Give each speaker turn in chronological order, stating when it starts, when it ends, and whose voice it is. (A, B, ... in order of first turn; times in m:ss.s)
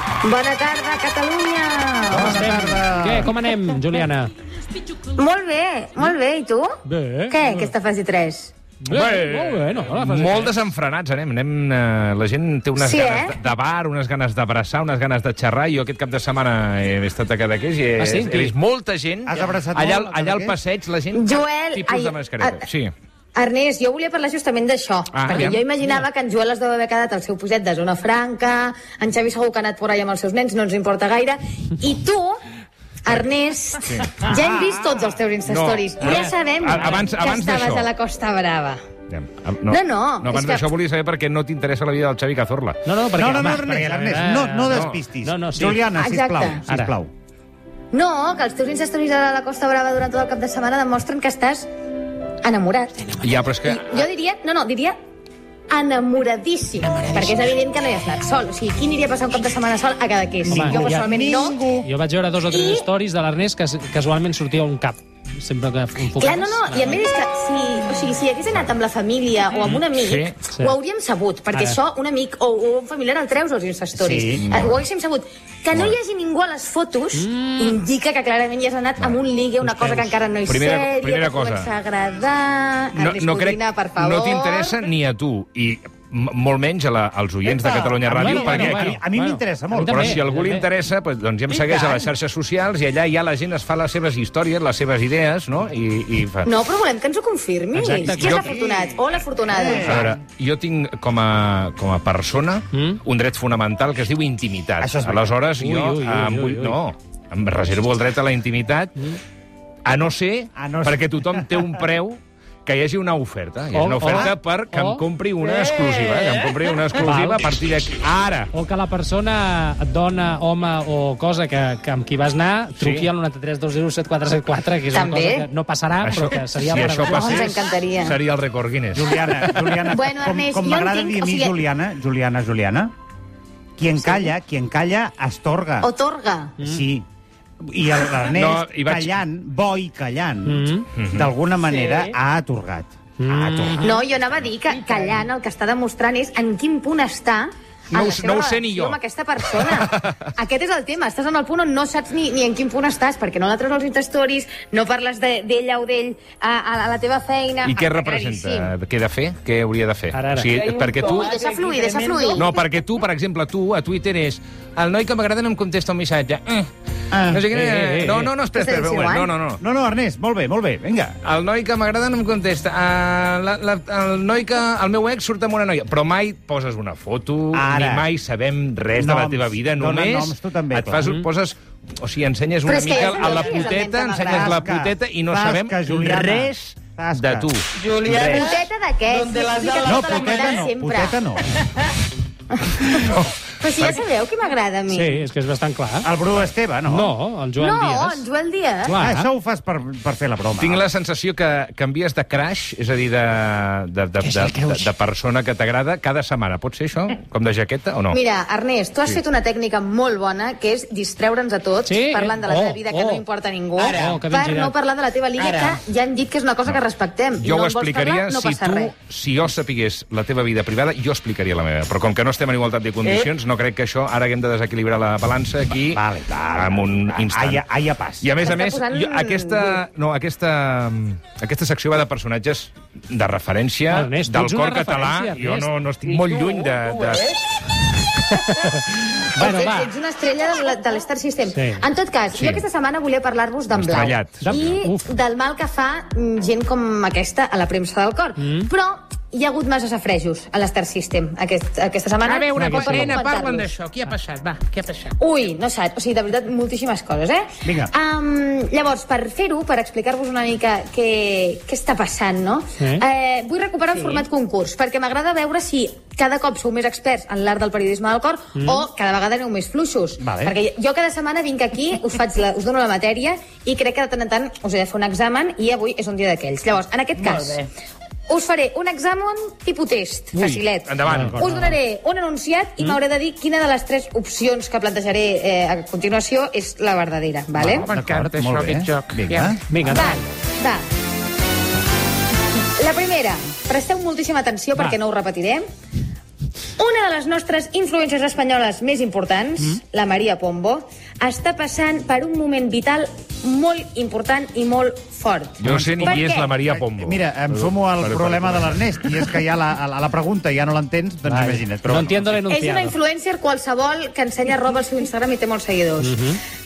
0:00.2-0:02.3 A
0:02.1-0:03.4 B
0:02.1-0:04.3 C
0:05.1-0:06.7 A
0:06.9-0:07.7 C
0:07.3-0:08.5 A
0:08.8-0:10.6 C
0:08.9-0:22.9 D
0:12.8-0:13.4 A
0:18.0-0:18.5 C
0:19.3-0:20.6 B
0:21.1-0:22.7 A
0:23.4-0:32.4 A
0:25.1-0:25.6 D
0:33.0-0:38.8 A
0:33.8-0:34.2 D
0:34.5-0:34.8 B
0:35.4-0:37.9 D
0:36.0-0:37.0 C
0:39.1-0:42.8 D
0:39.7-0:40.7 A
0:42.8-0:45.8 C
0:43.2-0:47.1 B
0:44.7-0:45.0 D
0:45.9-0:46.6 A
0:46.7-0:47.0 C
0:47.9-0:51.7 A
0:52.4-0:55.0 A
0:53.2-0:54.0 D
0:55.7-1:01.6 A
1:00.5-1:01.1 C
1:00.5-1:01.9 B
1:01.8-1:07.0 C
1:02.5-1:02.9 A
1:06.1-1:24.8 A
1:09.6-1:10.4 D
1:10.5-1:10.8 C
1:11.5-1:11.8 C
1:14.0-1:14.5 B
1:14.4-1:14.8 D
1:15.7-1:16.0 D
1:17.2-1:17.8 C
1:19.6-1:20.2 C
1:20.4-1:21.7 D
1:23.0-1:29.0 D
1:27.4-1:28.3 A
1:28.1-1:30.2 B
1:28.2-1:30.7 C
1:29.9-1:36.5 D
1:36.4-1:40.1 A
1:37.8-1:38.5 C
1:38.1-1:38.6 D
1:38.2-1:38.9 B
1:39.5-1:40.2 B
1:39.8-1:49.0 D
1:42.7-1:43.0 C
1:44.8-1:45.4 B
1:45.6-1:46.8 C
1:49.9-1:58.5 D
1:50.6-1:51.7 B
1:53.7-1:55.0 C
1:57.0-1:57.4 C
1:58.5-2:07.6 C
2:02.8-2:03.1 D
2:04.9-2:05.5 A
2:06.0-2:09.8 D
2:07.0-2:08.2 A
2:08.9-2:12.9 B
2:09.9-2:11.6 A
2:13.8-2:15.9 B
2:14.0-2:14.3 A
2:15.8-2:16.6 A
2:16.6-2:17.1 B
2:17.6-2:24.2 B
2:18.3-2:19.1 D
2:20.4-2:20.9 C
2:21.0-2:21.3 D
2:23.2-2:24.0 C
2:23.8-2:38.7 A
2:24.8-2:25.1 E
2:27.9-2:30.2 D
2:37.6-2:41.4 D
2:40.1-2:40.5 C
2:40.5-2:42.4 E
2:41.0-2:42.8 A
2:42.3-2:49.6 D
2:47.1-2:47.5 B
2:47.5-2:48.3 C
2:48.5-2:49.3 A
2:49.6-2:51.2 B
2:51.2-3:08.6 D
2:57.5-2:58.1 B
2:59.0-3:01.1 B
3:02.6-3:04.6 A
3:04.2-3:07.5 B
3:07.8-3:08.5 E
3:08.2-3:11.2 A
3:09.1-3:10.6 E
3:09.8-3:11.6 B
3:12.5-3:15.2 A
3:13.0-3:14.0 D
3:14.9-3:16.1 C
3:16.0-3:17.2 B
3:16.9-3:18.3 C
3:17.6-3:19.0 A
3:18.9-3:19.3 C
3:19.0-3:20.9 B
3:20.6-3:28.2 D
3:24.3-3:24.8 C
3:28.1-3:38.9 A
3:31.9-3:33.2 C
3:33.8-3:34.2 E
3:33.9-3:34.7 C
3:35.4-3:35.8 E
3:37.4-3:46.0 D
3:43.0-3:43.3 E
3:45.9-3:48.3 B
3:46.5-3:47.6 D
3:48.2-3:57.4 D
3:48.4-3:49.8 A
3:53.9-3:55.7 C
3:58.3-3:59.9 C
3:59.4-4:13.7 A
4:01.5-4:01.8 C
4:02.3-4:02.6 D
4:03.7-4:04.8 D
4:04.4-4:05.0 C
4:08.4-4:08.7 C
4:12.2-4:15.1 E
4:12.6-4:13.1 D
4:15.2-4:37.7 A
4:17.6-4:17.9 B
4:22.8-4:23.0 C
4:28.6-4:28.8 C
4:30.2-4:30.6 B
4:37.2-4:37.7 E
4:38.3-4:47.9 A
4:40.3-4:41.8 C
4:40.9-4:41.5 D
4:47.6-4:50.0 B
4:47.8-4:49.6 E
4:49.7-4:50.2 C
4:49.9-4:50.8 A
4:52.8-4:55.6 A
4:56.8-5:06.5 A
5:05.6-5:09.2 D
5:05.6-5:06.2 B
5:06.7-5:12.3 B
5:11.3-5:13.0 C
5:12.5-5:16.2 A
5:16.0-5:16.4 C